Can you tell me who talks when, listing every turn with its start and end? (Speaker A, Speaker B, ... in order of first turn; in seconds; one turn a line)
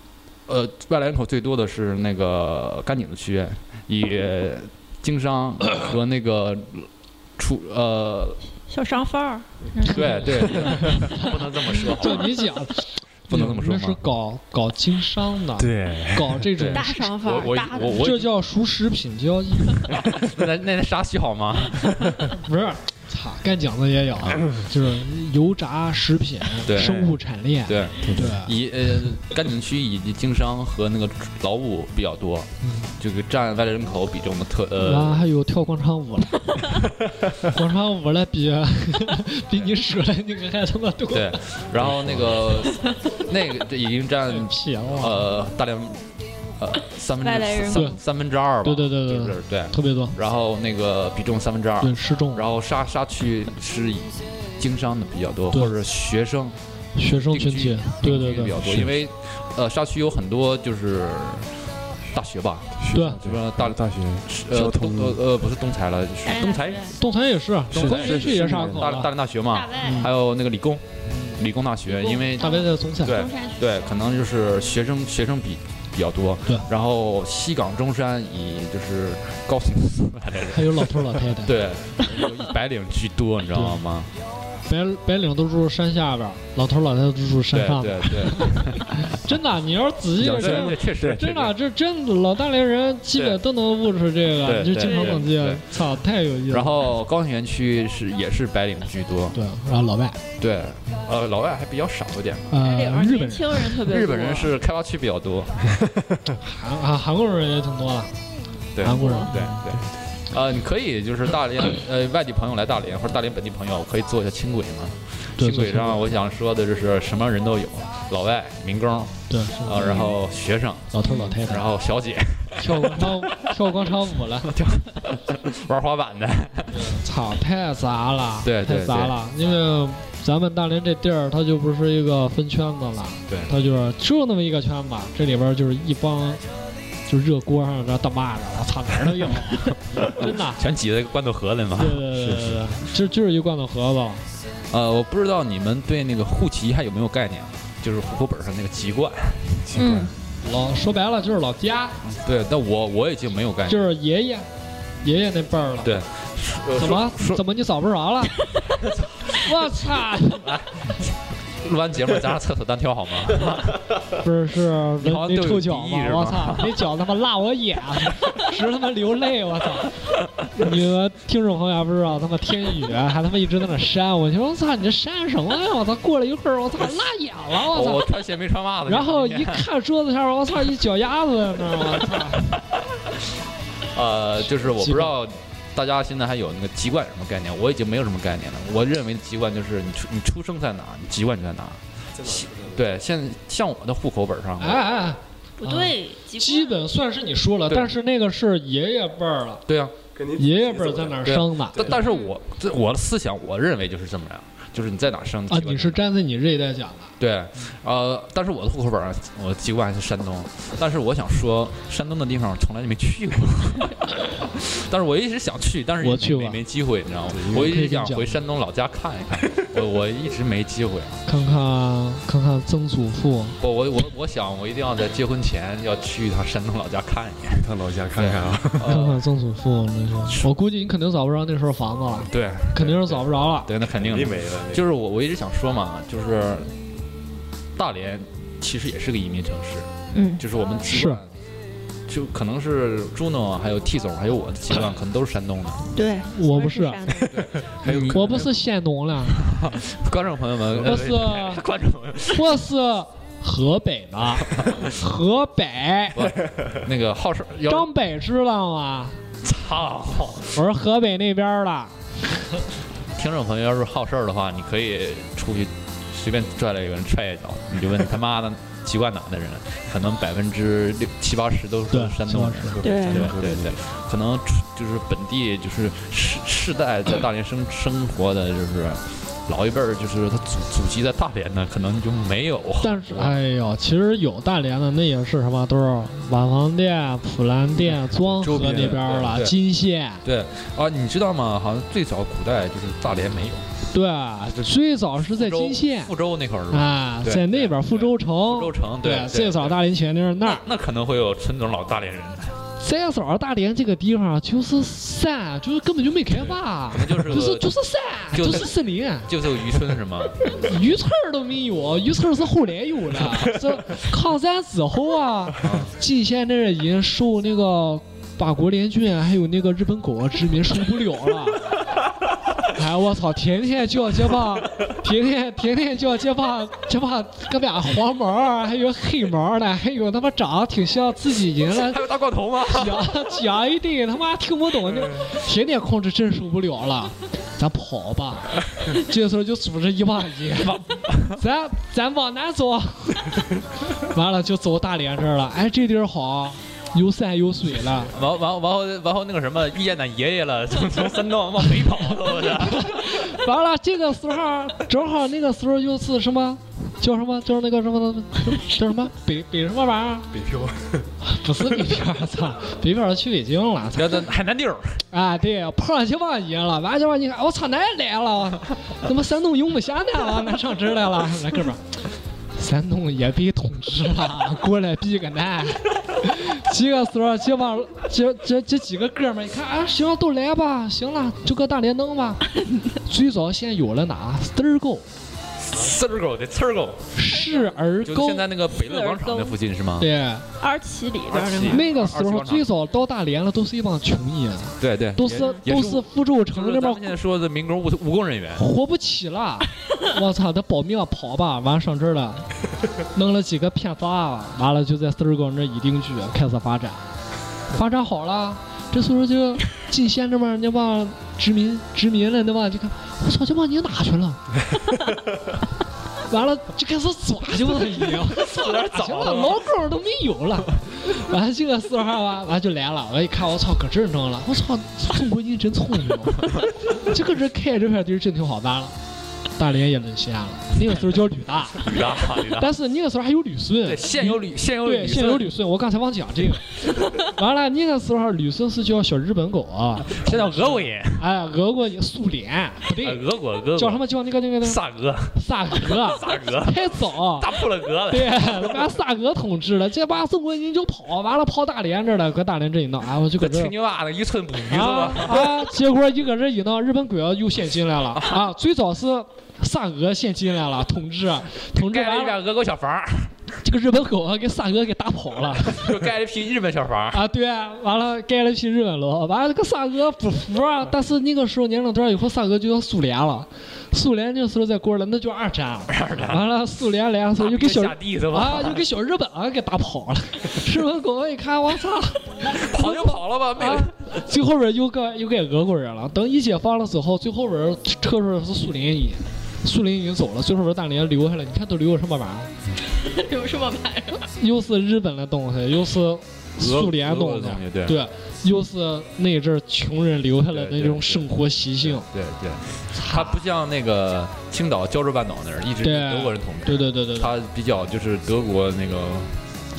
Speaker A: 0.5-8.4
Speaker B: 8.7-11.2
Speaker A: 9.8-12.3
Speaker C: 9.9-11.3
Speaker C: 11.8-17.0
Speaker B: 11.9-12.4
Speaker A: 13.3-14.0
Speaker D: 15.6-16.5
Speaker A: 16.6-18.3
Speaker B: 16.7-18.1
Speaker C: 17.9-19.9
Speaker A: 19.9-22.2
Speaker C: 22.3-28.5
Speaker A: 26.6-27.1
Speaker A: 27.7-35.2
Speaker D: 28.0-28.4
Speaker C: 32.6-32.9
Speaker C: 34.8-36.9
Speaker C: 37.4-41.4
Speaker A: 41.1-46.1
Speaker D: 41.8-42.5
Speaker C: 44.3-45.3
Speaker A: 46.6-56.6
Speaker B: 47.2-48.0
Speaker C: 47.7-48.0
Speaker C: 48.6-50.1
Speaker C: 51.8-52.4
Speaker C: 57.0-58.7
Speaker A: 57.1-61.5
Speaker D: 58.6-58.9
Speaker A: 62.1-66.9
Speaker D: 62.8-65.2
Speaker C: 62.9-63.2
Speaker B: 66.2-67.0
Speaker C: 67.0-69.1
Speaker D: 67.7-69.0
Speaker A: 67.7-70.8
Speaker B: 69.5-70.1
Speaker C: 69.8-70.1
Speaker C: 71.1-71.4
Speaker A: 71.3-84.1
Speaker B: 71.9-74.0
Speaker C: 72.4-73.2
Speaker C: 80.5-81.5
Speaker C: 83.5-83.8
Speaker C: 84.7-96.7
Speaker A: 87.5-89.0
Speaker D: 90.2-91.3
Speaker A: 90.2-91.5
Speaker A: 94.4-95.6
Speaker B: 94.8-95.2
Speaker A: 96.5-99.4
Speaker C: 99.3-100.2
Speaker A: 100.4-102.6
Speaker C: 102.5-103.8
Speaker B: 102.6-104.5
Speaker A: 103.8-105.7
Speaker C: 106.4-108.1
Speaker A: 108.8-120.9
Speaker C: 108.8-109.7
Speaker B: 108.9-109.3
Speaker C: 115.4-116.1
Speaker C: 119.3-120.1
Speaker C: 120.9-121.7
Speaker B: 121.0-121.4
Speaker A: 121.5-123.5
Speaker C: 122.6-124.5
Speaker A: 124.5-127.0
Speaker C: 126.7-136.4
Speaker A: 128.4-129.1
Speaker C: 137.1-140.6
Speaker A: 139.9-142.4
Speaker C: 141.8-144.2
Speaker A: 144.7-149.6
Speaker D: 149.7-150.1
Speaker B: 149.7-150.1
Speaker C: 150.4-152.0
Speaker A: 152.0-153.8
Speaker C: 153.7-154.5
Speaker C: 155.0-156.0
Speaker A: 155.8-157.4
Speaker C: 156.8-158.4
Speaker A: 158.8-159.5
Speaker C: 159.3-160.5
Speaker A: 160.5-163.9
Speaker C: 164.2-178.1
Speaker A: 165.0-166.8
Speaker A: 177.7-179.7
Speaker C: 178.9-182.6
Speaker A: 183.9-194.8
Speaker C: 184.4-185.1
Speaker D: 192.2-192.8
Speaker C: 194.6-199.6
Speaker B: 195.6-196.8
Speaker A: 199.7-199.9
Speaker D: 200.2-201.2
Speaker C: 200.4-202.0
Speaker A: 201.2-206.0
Speaker B: 202.1-202.3
Speaker C: 205.5-207.1
Speaker A: 207.2-221.2
Speaker C: 216.0-216.6
Speaker D: 217.3-217.6
Speaker C: 217.5-218.4
Speaker C: 221.3-223.6
Speaker A: 223.6-229.2
Speaker D: 227.6-229.0
Speaker C: 228.9-233.7
Speaker A: 230.3-230.5
Speaker A: 232.3-236.7
Speaker D: 233.9-234.9
Speaker A: 237.8-241.3
Speaker B: 240.1-240.4
Speaker C: 240.9-241.2
Speaker A: 242.1-245.9
Speaker B: 245.9-247.4
Speaker C: 246.3-247.0
Speaker A: 247.3-248.5
Speaker D: 247.8-248.4
Speaker C: 247.9-249.5
Speaker A: 249.2-252.6
Speaker C: 250.8-251.6
Speaker C: 252.3-256.3
Speaker A: 254.5-254.9
Speaker A: 256.1-257.9
Speaker C: 257.7-259.2
Speaker A: 259.4-260.6
Speaker C: 260.5-262.1
Speaker A: 263.1-283.4
Speaker C: 271.9-272.8
Speaker D: 272.7-273.9
Speaker B: 272.8-273.3
Speaker C: 282.8-290.2
Speaker D: 288.3-289.3
Speaker A: 288.6-289.5
Speaker A: 290.2-293.7
Speaker C: 293.9-296.1
Speaker A: 295.3-299.8
Speaker C: 296.7-300.6
Speaker A: 300.4-302.6
Speaker C: 302.8-309.3
Speaker A: 306.3-307.8
Speaker A: 308.3-310.5
Speaker C: 310.4-321.7
Speaker A: 315.6-315.9
Speaker C: 322.7-332.1
Speaker A: 331.7-333.1
Speaker C: 332.6-348.1
Speaker A: 340.7-341.4
Speaker A: 348.1-353.3
Speaker C: 352.6-360.3
Speaker D: 360.5-360.9
Speaker C: 361.2-364.3
Speaker A: 363.9-365.0
Speaker C: 365.1-371.9
Speaker C: 372.6-385.1
Speaker A: 385.6-387.2
Speaker C: 387.1-388.5
Speaker B: 387.3-387.7
Speaker A: 388.0-390.1
Speaker B: 388.7-389.6
Speaker C: 390.0-390.5
Speaker B: 390.6-391.9
Speaker A: 391.3-392.7
Speaker C: 391.4-397.2
Speaker A: 394.8-398.7
Speaker C: 398.6-402.5
Speaker C: 403.1-407.1
Speaker C: 407.7-414.4
Speaker C: 416.3-428.9
Speaker A: 418.3-419.7
Speaker C: 429.6-443.2
Speaker A: 431.8-432.7
Speaker A: 433.9-435.5
Speaker A: 440.1-441.2
Speaker A: 443.0-444.0
Speaker C: 443.8-444.8
Speaker A: 444.6-448.7
Speaker C: 445.3-447.6
Speaker C: 448.1-453.7
Speaker A: 453.4-455.7
Speaker C: 454.7-462.4
Speaker A: 461.7-463.4
Speaker C: 463.6-465.9
Speaker A: 465.7-467.2
Speaker C: 467.1-492.5
Speaker A: 475.9-476.4
Speaker A: 477.4-478.8
Speaker A: 482.6-483.9
Speaker B: 493.0-494.3
Speaker C: 494.4-502.1
Speaker A: 496.6-498.0
Speaker A: 500.5-509.4
Speaker C: 502.9-503.4
Speaker C: 505.8-507.3